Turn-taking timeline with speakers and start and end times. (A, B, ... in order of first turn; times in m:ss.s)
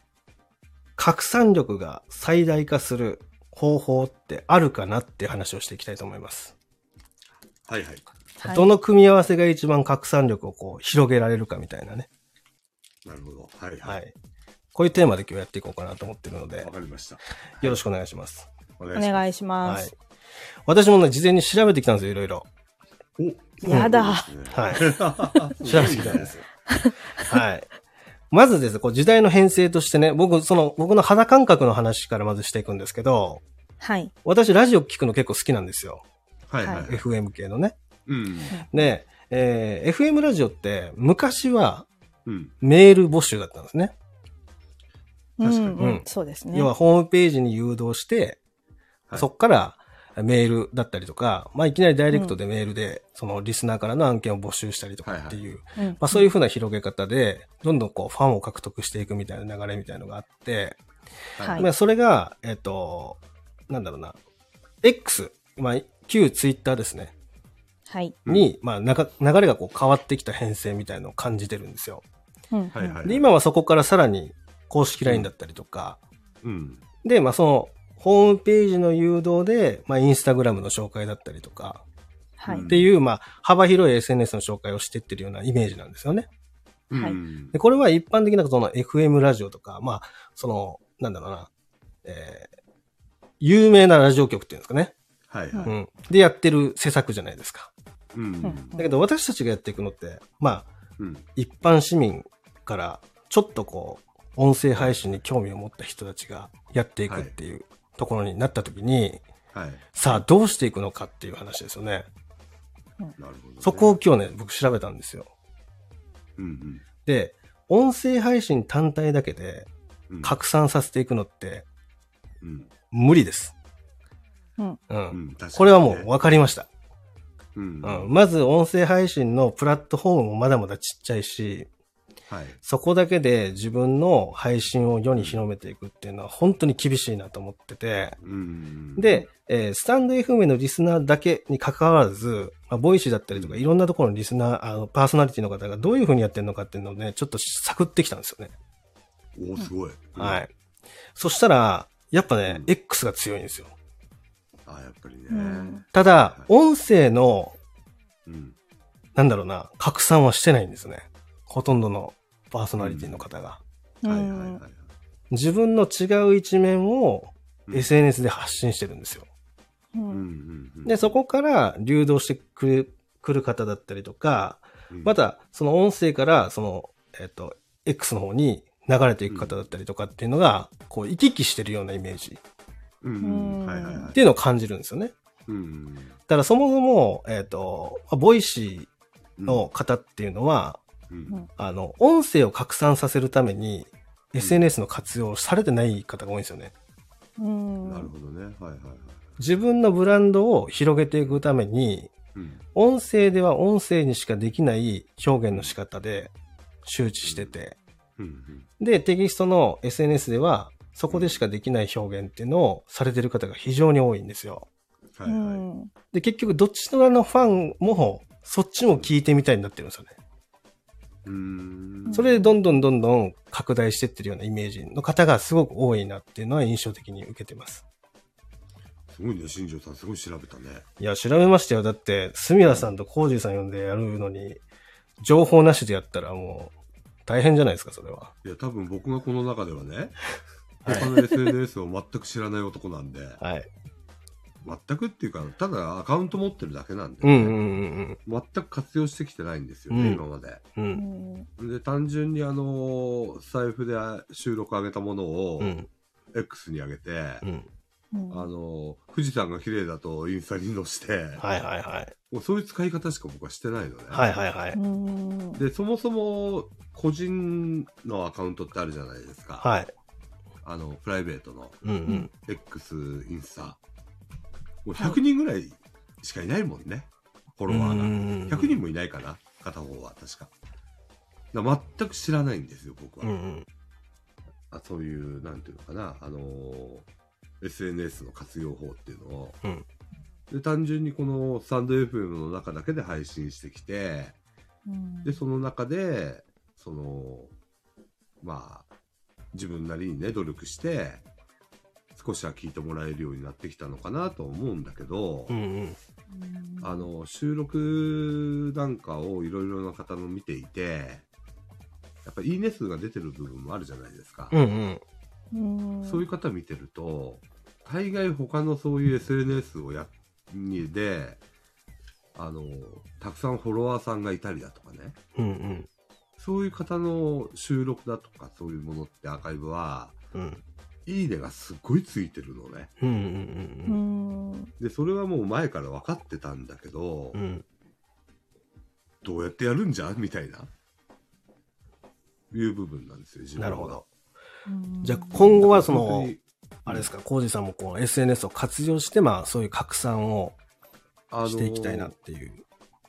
0:01.0-0:06.5 A
0:07.7-0:08.0 B
0:08.4-0:08.7 C
0:08.4-0:12.1 A
0:13.0-0:14.0 B
0:13.8-0:14.1 A
0:14.7-0:16.7 A
0:16.6-0:17.8 B
0:17.6-0:18.5 A
0:18.8-0:19.2 B
0:18.9-0:19.9 C
0:19.6-0:19.9 A
0:20.7-0:22.5 A
0:23.2-0:26.3 B
0:23.6-0:23.9 A
0:23.7-0:24.3 C
0:24.5-0:26.4 A
0:27.2-0:27.7 A
0:28.3-0:33.4 A
0:33.8-0:34.1 C
0:34.2-0:36.0 A
0:36.5-0:37.0 B
0:36.6-0:36.9 C
0:36.7-0:37.8 A
0:38.1-0:38.6 B
0:38.7-0:41.9 A
0:42.2-0:42.5 B
0:42.6-0:43.9 A
0:45.4-0:46.7 C
0:45.4-0:48.4 A
0:49.2-1:00.8 A
0:55.0-0:55.4 B
0:55.8-0:56.3 C
1:01.4-1:01.7 B
1:01.4-1:01.7 C
1:01.6-1:04.2 A
1:04.8-1:07.1 A
1:07.9-1:08.2 C
1:08.2-1:12.0 A
1:12.5-1:13.0 C
1:12.8-1:13.2 B
1:13.0-1:16.0 A
1:16.4-1:16.8 B
1:17.0-1:21.8 A
1:22.4-1:22.7 C
1:22.5-1:22.9 B
1:22.7-1:26.3 A
1:26.9-1:27.6 B
1:27.5-1:31.5 A
1:32.0-1:32.5 A
1:33.4-1:34.9 A
1:35.3-1:35.7 B
1:35.6-1:37.7 A
1:38.1-1:38.8 B
1:38.4-1:38.8 C
1:38.8-1:40.7 A
1:41.0-1:41.2 B
1:41.4-1:49.2 A
1:47.1-1:47.3 B
1:49.5-1:49.9 B
1:50.0-1:52.1 A
1:53.2-1:54.0 B
1:53.6-1:55.3 A
1:56.4-1:56.8 B
1:57.1-1:59.7 A
2:00.1-2:00.4 B
2:00.2-2:01.7 A
2:02.4-2:02.7 B
2:02.9-2:03.6 A
2:04.9-2:06.7 A
2:05.1-2:06.1 B
2:07.6-2:08.1 B
2:07.8-2:11.7 A
2:12.3-2:12.6 B
2:12.6-2:18.2 A
2:15.1-2:15.4 B
2:18.2-2:19.2 B
2:19.0-2:28.5 A
2:23.3-2:23.6 B
2:29.4-2:30.4 B
2:30.2-2:30.5 A
2:31.1-2:33.7 A
2:34.7-2:36.5 B
2:35.3-2:35.8 C
2:35.9-2:37.6 A
2:38.2-2:38.6 B
2:39.1-2:43.6 A
2:42.8-2:43.2 B
2:44.0-2:44.6 C
2:44.1-2:44.8 B
2:45.3-2:49.3 A
2:49.9-2:50.2 C
2:50.1-2:51.1 B
2:50.8-3:02.4 A
2:54.9-2:55.1 B
2:59.3-2:59.6 B
3:03.0-3:04.2 B
3:03.2-3:04.1 C
3:04.1-3:05.1 A
3:05.5-3:06.2 B
3:06.3-3:08.9 A
3:09.4-3:09.7 B
3:09.5-3:10.8 A
3:11.1-3:11.4 B
3:11.6-3:16.7 A
3:14.4-3:14.6 B
3:17.4-3:18.1 C
3:17.8-3:19.3 B
3:19.4-3:22.1 A
3:22.4-3:22.6 B
3:22.8-3:26.3 A
3:25.5-3:25.8 B
3:26.8-3:27.8 A
3:27.2-3:27.5 B
3:28.2-3:28.7 B
3:28.8-3:34.7 A
3:31.1-3:31.4 B
3:35.2-3:35.6 B
3:35.3-3:35.9 C
3:36.1-3:40.1 A
3:41.2-3:42.3 B
3:42.1-3:42.5 C
3:42.1-3:47.8 A
3:49.1-3:50.9 B
3:51.0-3:54.6 A
3:55.2-3:56.8 A
3:57.2-3:58.3 A
3:58.4-4:00.3 B
4:00.8-4:01.1 A
4:00.8-4:03.4 B
4:03.4-4:03.7 A
4:04.6-4:07.6 B
4:07.2-4:08.2 A
4:08.2-4:10.6 B
4:09.9-4:10.2 A
4:10.8-4:11.0 A
4:10.9-4:11.5 C
4:11.6-4:15.8 B
4:15.6-4:15.9 A
4:16.3-4:17.4 B
4:17.4-4:17.7 A
4:18.1-4:18.5 C
4:18.3-4:21.4 B
4:21.4-4:22.1 A
4:22.3-4:24.2 B
4:24.1-4:24.8 A
4:24.7-4:25.6 C
4:25.6-4:29.7 B
4:29.6-4:29.9 A
4:30.6-4:31.8 B
4:31.8-4:32.3 A
4:32.0-4:32.3 C
4:32.4-4:33.8 B
4:34.8-4:40.5 B
4:37.7-4:38.8 A
4:41.5-4:43.3 B
4:43.2-4:43.7 A
4:44.7-4:47.1 B
4:47.6-4:49.6 B
4:50.5-4:54.4 B
4:54.9-4:55.4 C
4:55.2-4:57.5 B
4:58.4-4:58.9 B
4:59.5-5:01.2 B
5:02.1-5:05.6 B
5:05.5-5:06.0 A
5:06.3-5:07.1 C
5:06.8-5:11.2 B
5:12.2-5:14.6 B
5:14.5-5:15.0 A
5:15.5-5:16.2 C
5:16.0-5:21.4 B
5:22.4-5:25.2 B
5:25.4-5:25.9 A
5:26.4-5:30.2 B
5:30.3-5:30.6 A
5:31.1-5:32.9 B
5:33.0-5:34.0 A
5:33.9-5:34.7 C
5:34.8-5:37.4 B
5:37.3-5:37.6 A
5:39.2-5:40.7 B
5:42.5-5:44.0 B
5:43.6-5:44.0 A
5:44.7-5:45.6 C
5:45.0-5:46.3 A
5:45.4-5:47.1 B
5:46.8-5:50.6 A
5:51.3-5:52.1 B
5:51.5-5:52.6 A